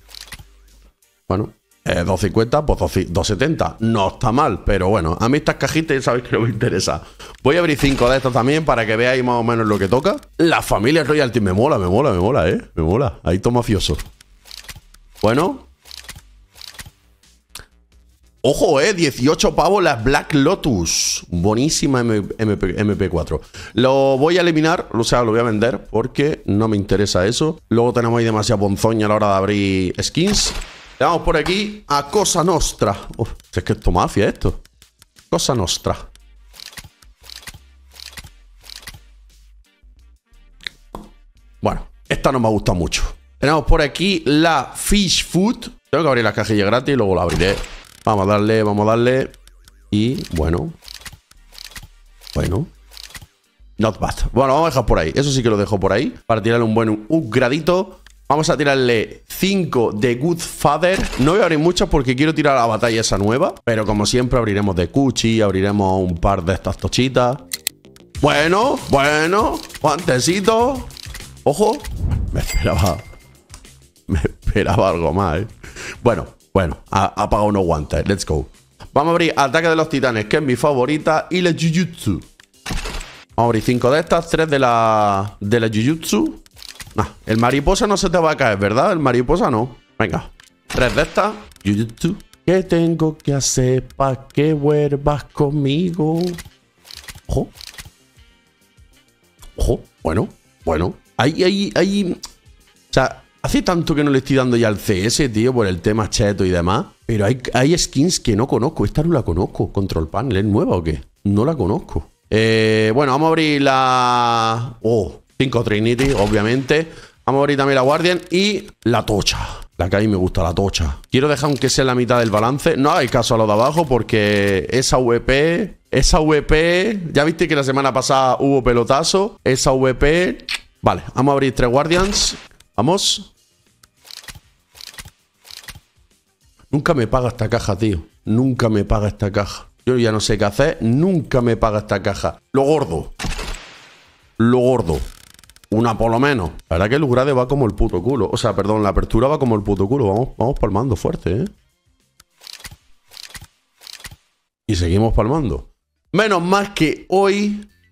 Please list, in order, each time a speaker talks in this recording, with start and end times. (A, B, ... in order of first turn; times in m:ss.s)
0:01.3-0:14.0 A
0:15.2-0:15.7 A
0:18.4-0:34.6 A
0:35.3-0:36.1 A
0:41.6-0:49.3 A
0:49.9-0:50.8 A
0:52.3-0:52.7 A
0:53.8-1:07.4 A
1:08.2-1:10.9 A
1:11.4-1:13.0 A
1:14.1-1:22.2 A
1:23.4-1:26.4 A
1:26.9-1:36.4 A
1:39.6-1:42.2 A
1:42.9-2:13.3 A
2:16.7-2:23.1 A
2:24.4-2:25.1 A
2:25.7-2:31.5 A
2:34.7-2:37.7 A